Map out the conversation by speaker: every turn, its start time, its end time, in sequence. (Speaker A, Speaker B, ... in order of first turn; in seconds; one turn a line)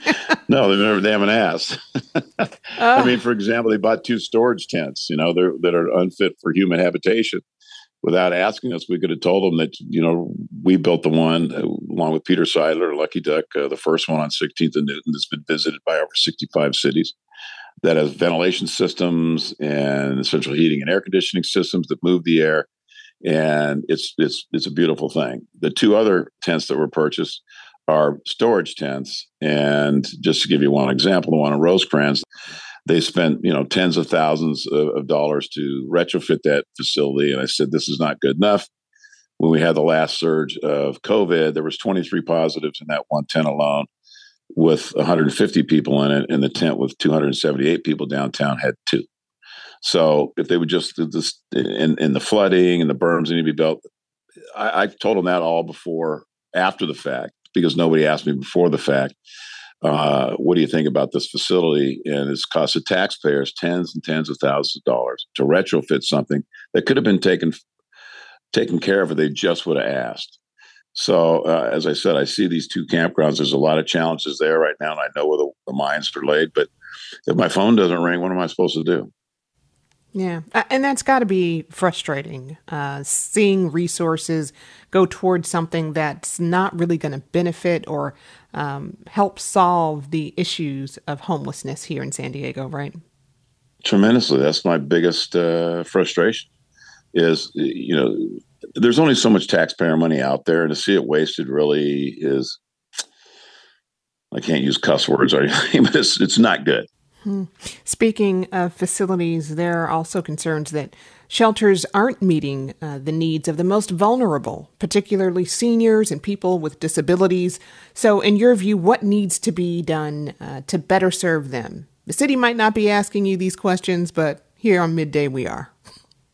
Speaker A: 0.5-7.4
Speaker B: 2.8-3.1
Speaker A: 8.0-17.1
Speaker A: 17.8-22.7
Speaker A: 23.2-32.2
Speaker A: 32.9-38.7
Speaker A: 39.4-43.9
Speaker A: 44.5-49.0
Speaker A: 49.8-53.8
Speaker A: 54.6-59.1
Speaker A: 59.8-67.6
Speaker A: 68.5-70.4
Speaker A: 71.0-76.7
Speaker A: 77.3-79.1
Speaker B: 80.1-93.0
Speaker A: 93.8-96.5
Speaker A: 97.1-102.6
Speaker A: 104.3-106.9
Speaker B: 107.2-125.7